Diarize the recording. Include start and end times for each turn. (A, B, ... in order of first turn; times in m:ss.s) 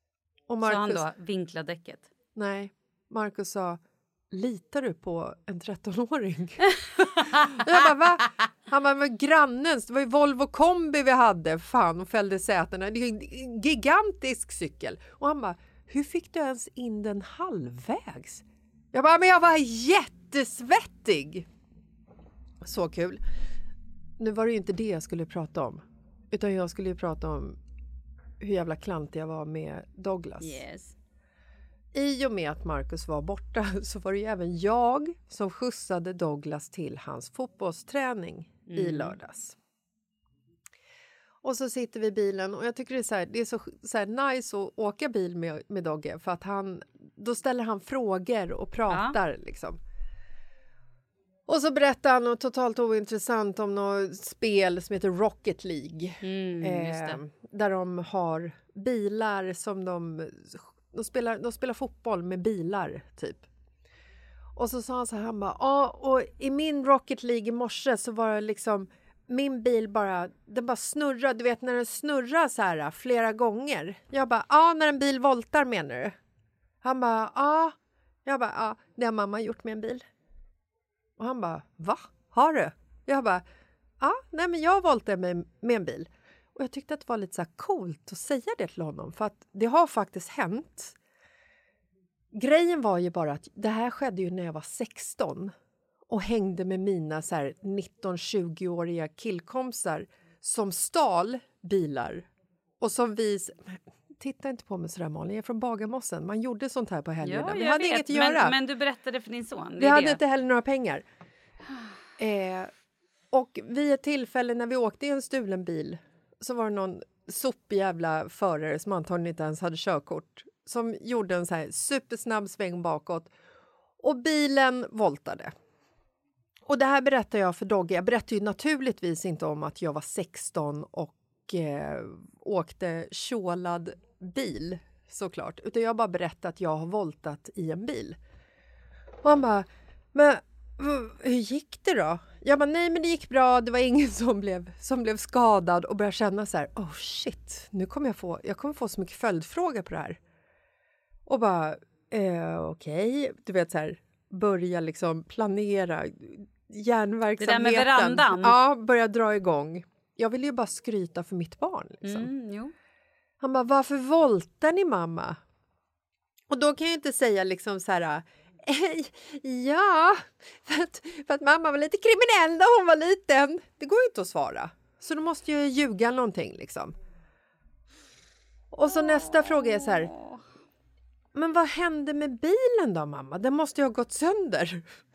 0:00.5-0:01.0 A
0:00.6-0:02.1 B
0:02.4-0:21.5 A
0:07.2-0:07.6 B
0:22.6-0:23.2 A
0:24.2-0:27.6 A
0:28.4-0:30.6 A
0:30.4-0:31.0 B
0:31.9-0:39.6 A
0:38.7-0:39.2 B
0:41.4-0:49.8 A
0:48.9-0:49.2 B
0:51.5-1:03.5 A
0:56.2-0:57.2 B
1:04.6-1:16.2 A
1:16.8-1:20.0 A
1:21.2-1:23.4 A
1:24.0-1:31.0 A
1:32.3-1:35.5 A
1:36.1-1:42.3 A
1:42.8-1:48.6 A
1:47.2-1:50.2 B
1:49.8-1:51.0 A
1:52.2-1:52.7 A
1:53.3-2:03.3 A
2:04.0-2:05.5 A
2:06.7-2:18.2 A
2:19.2-2:30.2 A
2:31.3-2:42.3 A
2:37.4-2:38.6 B
2:42.0-2:42.7 B
2:43.4-2:45.4 A
2:46.5-2:56.9 A
2:58.7-3:00.1 A
3:00.1-3:00.4 B
3:01.3-3:04.9 A